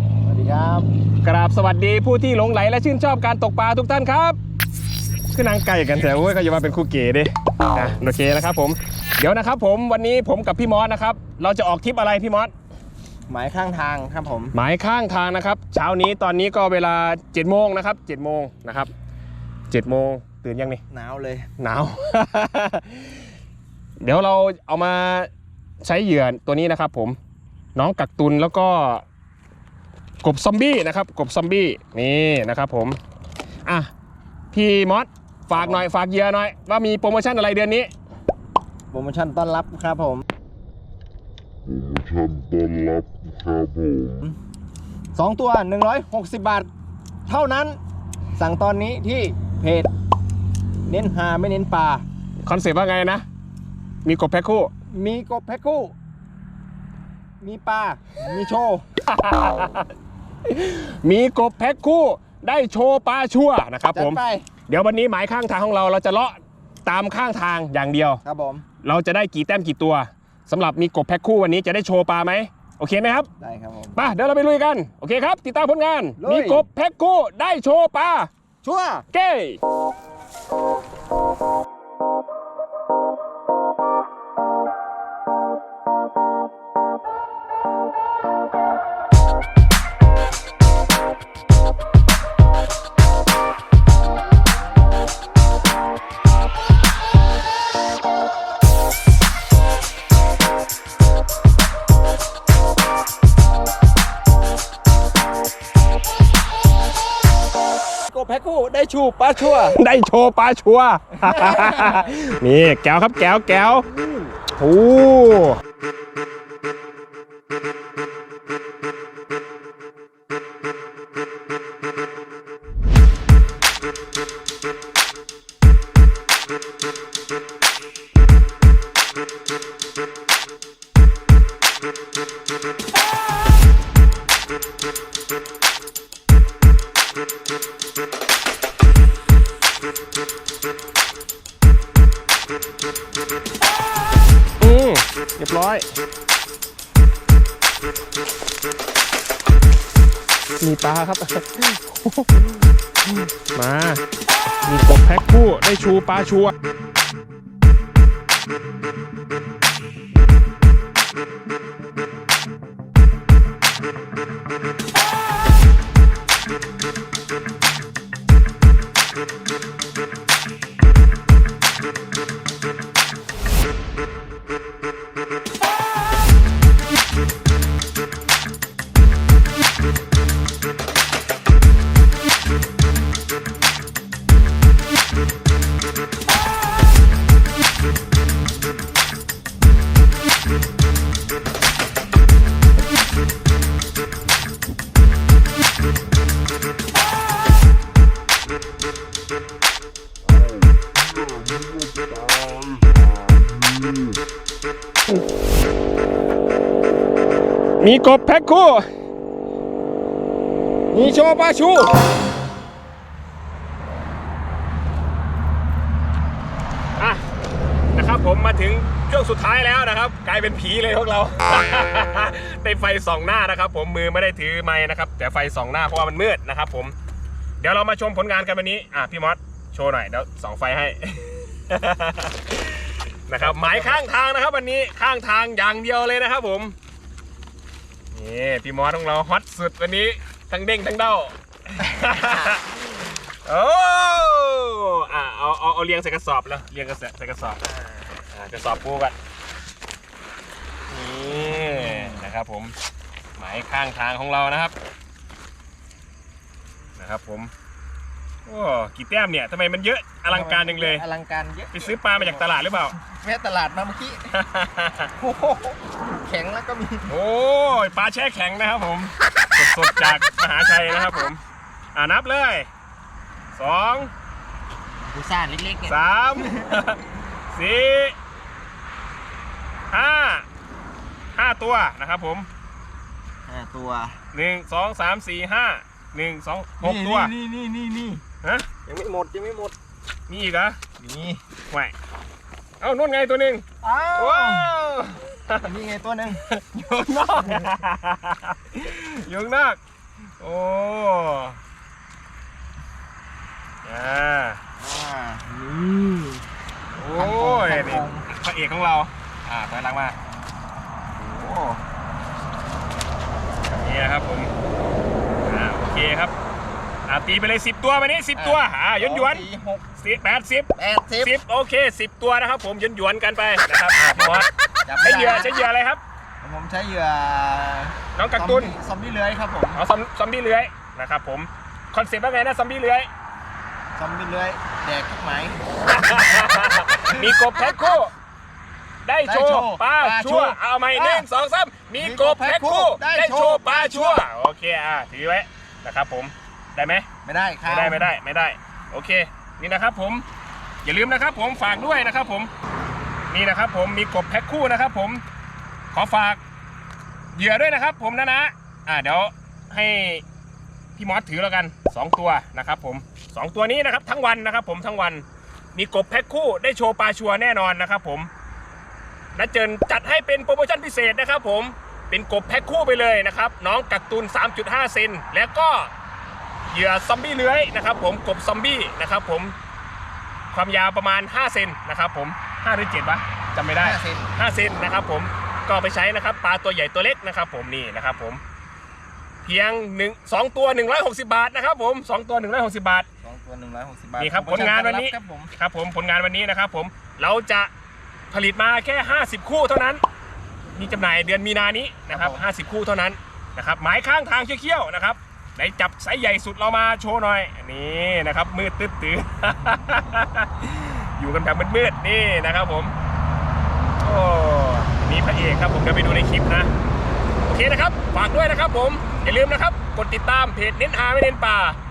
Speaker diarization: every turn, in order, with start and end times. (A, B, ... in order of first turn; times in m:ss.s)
0:00.2-0:00.9 A
0:01.2-0:04.4 B
0:05.3-0:12.5 B
0:13.3-0:14.5 A
0:14.5-0:18.9 B
0:19.7-0:20.8 B
0:20.9-0:21.5 A
0:21.6-0:23.2 B
0:24.0-0:25.3 B
0:25.8-0:27.2 B
0:27.8-0:29.0 B
0:30.2-0:33.0 B
0:34.5-0:37.9 B
0:35.5-0:35.8 A
0:38.9-0:40.3 A
0:41.8-0:44.1 C
0:45.2-0:46.7 A
0:47.3-0:47.8 A
0:48.4-0:49.9 A
0:50.9-0:52.0 A
0:52.4-0:53.2 B
0:54.0-0:54.7 B
0:54.9-0:56.0 A
0:57.4-0:58.8 A
0:59.1-0:59.9 B
1:00.4-1:08.2 B
1:03.9-1:04.5 A
1:08.2-1:08.6 A
1:08.8-1:13.3 B
1:13.4-1:14.0 A
1:14.0-1:18.3 B
1:16.2-1:16.7 A
1:18.6-1:19.0 A
1:19.1-1:19.6 B
1:48.1-1:49.8 A
1:49.7-1:53.9 B
1:51.2-1:52.1 A
1:54.5-1:55.6 B
2:24.6-2:25.9 B
2:30.6-2:34.0 B
2:34.7-2:36.5 B
3:21.3-3:22.8 C
3:27.8-3:28.9 B
3:30.9-3:31.9 B
3:37.0-3:37.2 B
3:37.9-3:47.0 B
3:47.6-3:56.8 B
3:53.4-3:54.0 A
3:58.1-4:09.2 B
4:10.9-4:12.8 B
4:11.3-4:12.3 A
4:13.4-4:14.7 B
4:17.0-4:17.5 B
4:18.5-4:21.0 B
4:20.3-4:24.4 A
4:21.7-4:23.0 B
4:24.3-4:25.1 B
4:25.2-4:27.1 A
4:27.1-4:31.4 B
4:31.9-4:32.7 B
4:33.5-4:34.1 B
4:35.0-4:36.7 A
4:35.9-4:37.0 B
4:37.5-4:38.2 B
4:39.9-4:40.5 B
4:41.4-4:42.5 B
4:43.5-4:44.2 A
4:44.3-4:47.3 B
4:46.8-4:48.2 A
4:48.4-4:48.7 B
4:48.9-4:49.8 A
4:50.3-4:50.8 B
4:51.0-4:51.4 A
4:52.8-4:53.6 B
4:53.8-4:54.8 A
4:54.2-4:55.7 B
4:55.6-4:56.4 A
4:56.5-4:59.8 B
4:57.4-4:57.6 A
5:00.4-5:01.6 B
5:03.8-5:04.6 B
5:04.8-5:06.4 A
5:07.0-5:10.2 B
5:07.1-5:08.3 A
5:11.2-5:11.8 A
5:13.7-5:14.5 B
5:15.4-5:16.3 B
5:17.1-5:19.4 B
5:18.4-5:19.8 A
5:20.0-5:24.5 B
5:20.8-5:21.4 A
5:24.0-5:25.5 A
5:25.0-5:26.0 B
5:26.4-5:29.8 A
5:28.2-5:28.8 B
5:29.8-5:33.1 B
5:34.0-5:37.4 A
5:35.9-5:38.1 B
5:39.0-5:47.1 B
5:39.2-5:41.3 A
5:42.0-5:44.2 A
5:47.2-5:48.1 A
5:47.7-5:50.2 B
5:50.8-5:52.5 B
5:53.3-5:55.2 B
5:55.9-5:56.4 B
5:57.4-6:00.2 B
6:01.0-6:08.3 B
6:09.4-6:15.9 B
6:16.7-6:19.6 B
6:20.5-6:28.4 B
6:23.8-6:24.3 A
6:29.4-6:33.1 B
6:33.2-6:35.5 A
6:34.2-6:37.7 B
6:38.3-6:40.0 B
6:40.8-6:52.9 B
6:42.1-6:42.5 A
6:54.0-6:56.7 B
6:57.4-7:01.8 B